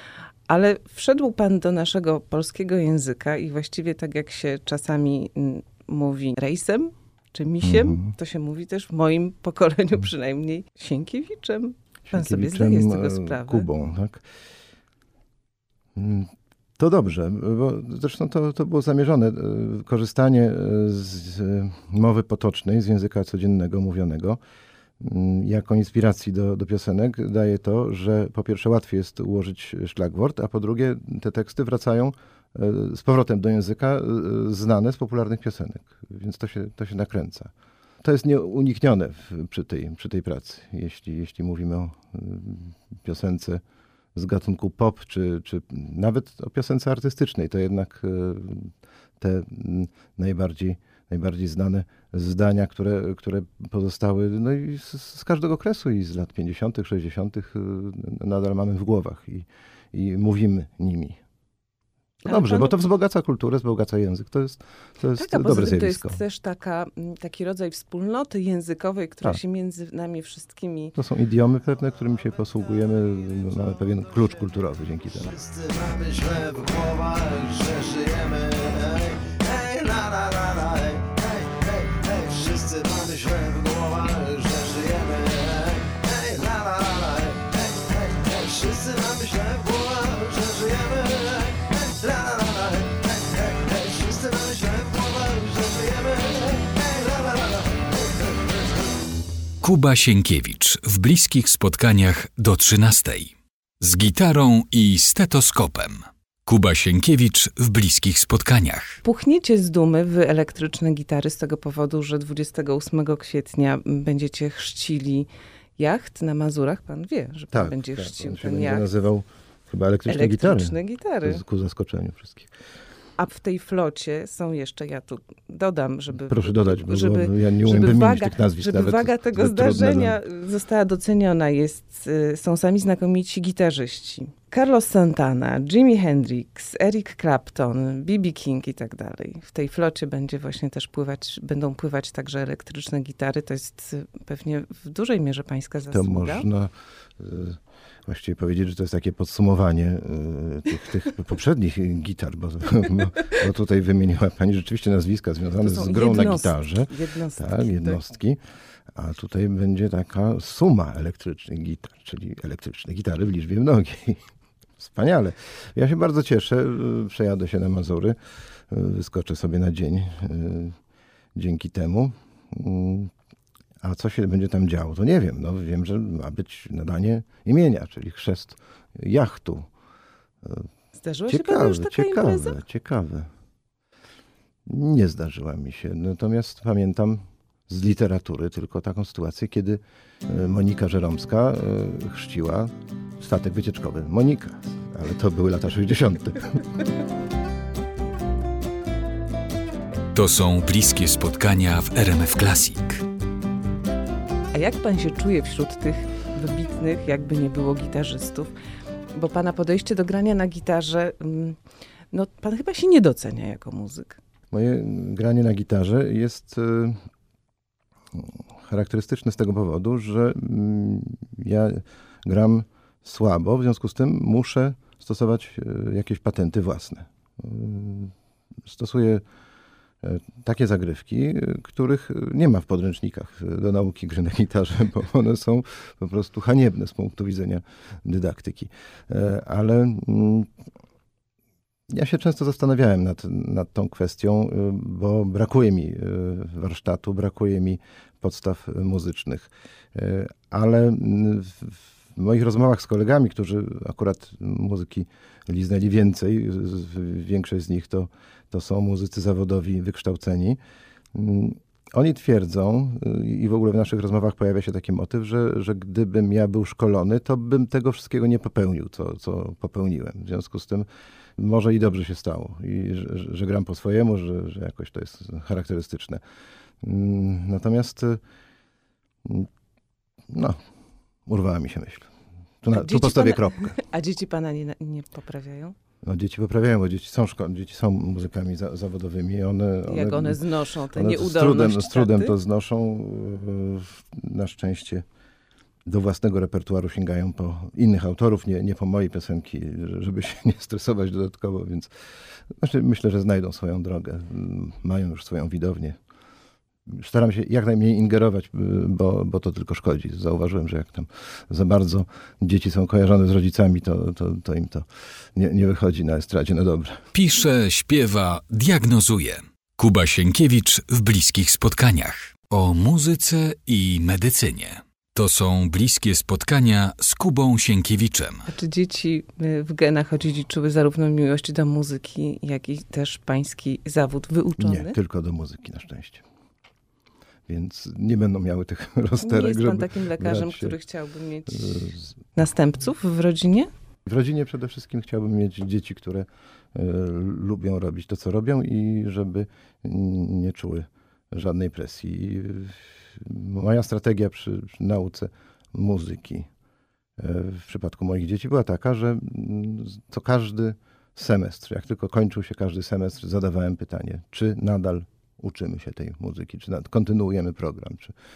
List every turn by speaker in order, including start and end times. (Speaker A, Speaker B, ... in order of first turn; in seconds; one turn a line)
Speaker A: 0.5-13.7
Speaker B: 7.6-8.1
Speaker B: 12.1-14.2
Speaker B: 15.9-24.4
Speaker B: 25.0-37.5
Speaker B: 38.0-43.6
Speaker B: 44.1-61.2
Speaker B: 62.2-66.2
Speaker A: 62.3-62.7
Speaker A: 65.1-70.9
Speaker B: 71.0-75.4
Speaker C: 75.5-87.4
Speaker C: 88.2-92.9
Speaker C: 94.1-97.4
Speaker D: 99.6-109.0
Speaker A: 109.0-118.9
Speaker B: 117.5-122.5
Speaker A: 120.0-121.4
Speaker A: 123.2-146.5
Speaker B: 126.2-130.2
Speaker B: 145.9-158.4
Speaker A: 155.5-158.0
Speaker B: 158.9-164.2
Speaker B: 164.8-168.2
Speaker B: 168.7-170.8
Speaker B: 171.3-173.1
Speaker B: 173.8-179.7
Speaker A: 181.0-182.6
Speaker B: 181.3-183.3
Speaker B: 184.7-196.6
Speaker D: 200.1-203.0
Speaker A: 204.5-208.5
Speaker A: 209.1-211.6
Speaker A: 212.1-214.2
Speaker B: 214.5-217.0
Speaker B: 218.1-228.1
Speaker B: 228.6-229.2
Speaker B: 230.0-240.5
Speaker B: 241.9-260.6
Speaker B: 261.1-276.2
Speaker B: 276.8-278.2
Speaker B: 280.3-280.6
Speaker B: 281.3-282.1
Speaker B: 282.6-283.8
Speaker A: 282.7-285.7
Speaker B: 286.0-295.0
Speaker A: 289.9-292.4
Speaker B: 295.8-301.9
Speaker B: 302.6-306.0
Speaker B: 306.9-317.0
Speaker D: 317.1-328.4
Speaker A: 328.4-334.9
Speaker B: 334.6-336.2
Speaker B: 337.5-340.7
Speaker A: 339.2-343.7
Speaker B: 341.6-342.1
Speaker B: 344.1-356.5
Speaker B: 357.2-368.1